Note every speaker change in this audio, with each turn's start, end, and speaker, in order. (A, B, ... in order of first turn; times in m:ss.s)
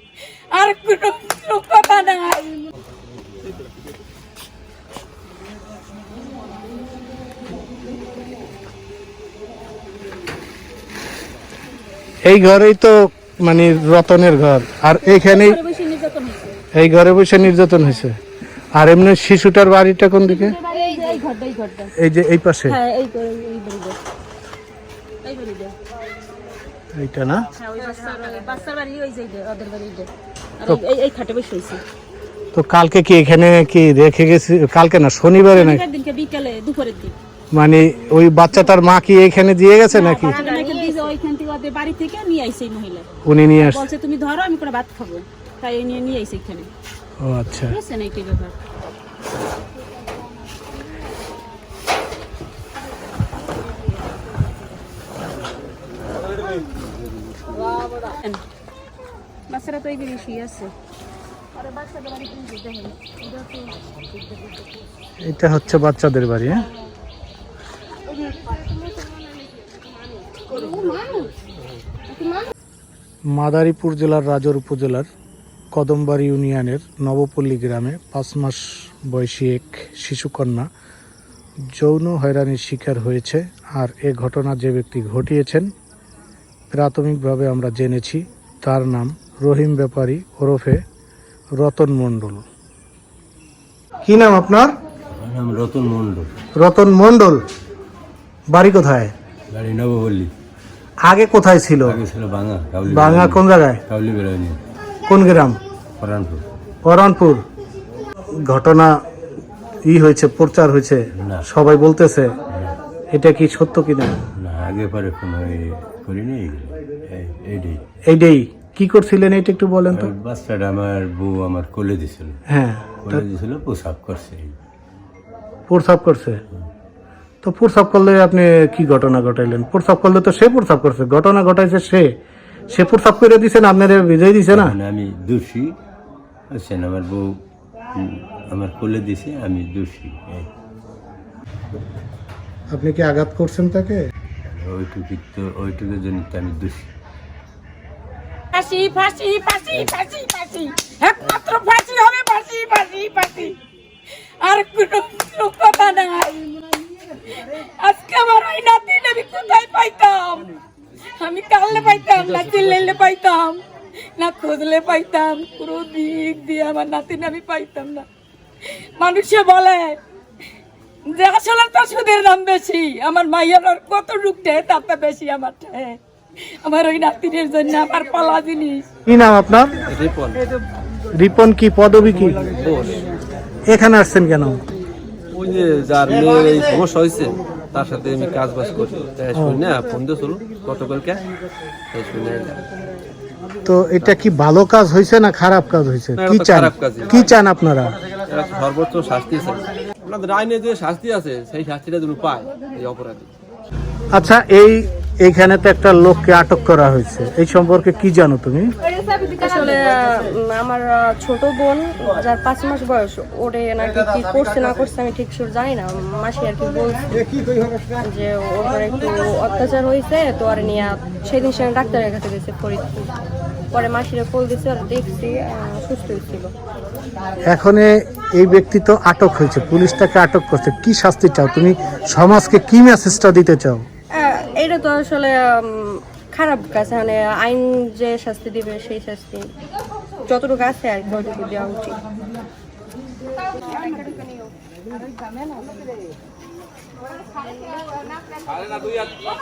0:00.5-0:02.5 A
0:12.2-0:15.6 B
0:15.0-0:16.6 A
0:16.7-0:18.2 B
0:18.7-0:20.6 B
0:20.2-0:21.9 A
0:22.0-0:22.8 B
0:22.7-0:24.0 A
0:25.2-0:25.7 A
0:26.9-0:27.4 B
0:27.6-0:31.8 A
0:32.5-0:35.8 B
0:35.5-0:37.2 A
0:37.5-0:40.4 B
0:39.9-0:43.0 A
0:40.3-0:41.0 C
0:43.2-0:43.8 B
0:43.6-0:46.7 A
0:47.2-0:47.8 B
0:47.7-0:48.5 A
0:59.5-1:00.7 A
1:05.2-1:06.6 B
1:08.4-1:09.2 C
1:10.6-1:11.0 C
1:13.3-1:15.1 B
1:15.7-1:20.6 B
1:21.7-1:25.7 B
1:26.7-1:30.8 B
1:31.6-1:32.4 B
1:34.0-1:34.7 B
1:35.2-1:36.3 D
1:36.5-1:37.4 B
1:38.5-1:39.1 B
1:39.5-1:40.3 D
1:41.0-1:42.0 B
1:41.8-1:44.6 D
1:42.8-1:43.8 B
1:45.1-1:45.6 B
1:46.0-1:46.4 D
1:46.8-1:47.4 B
1:48.4-1:48.9 B
1:49.9-1:52.3 B
1:51.2-1:51.4 D
1:53.1-1:54.2 B
1:54.4-1:57.8 D
1:58.0-2:00.1 B
1:59.9-2:02.4 D
2:02.5-2:03.2 B
2:03.0-2:04.6 D
2:05.7-2:06.4 B
2:07.4-2:12.1 B
2:12.7-2:14.8 B
2:14.5-2:15.7 D
2:16.5-2:17.2 D
2:18.0-2:20.5 D
2:22.7-2:24.0 B
2:24.4-2:26.9 D
2:28.5-2:33.5 A
2:34.4-2:36.5 A
2:37.4-2:40.5 A
2:41.2-2:43.6 A
2:44.2-2:48.0 A
2:49.0-2:50.0 A
2:51.1-2:58.9 A
2:59.1-2:59.7 B
2:59.9-3:00.4 E
3:01.1-3:02.4 B
3:02.4-3:03.0 E
3:03.7-3:04.6 B
3:05.3-3:11.2 E
3:11.9-3:12.6 E
3:13.6-3:18.0 B
3:16.2-3:17.3 E
3:18.3-3:23.3 E
3:24.1-3:28.7 B
3:29.1-3:37.3 C
3:38.0-3:43.1 C
3:43.7-3:46.5 C
3:47.5-3:53.8 B
3:54.1-3:59.5 C
4:00.3-4:02.0 C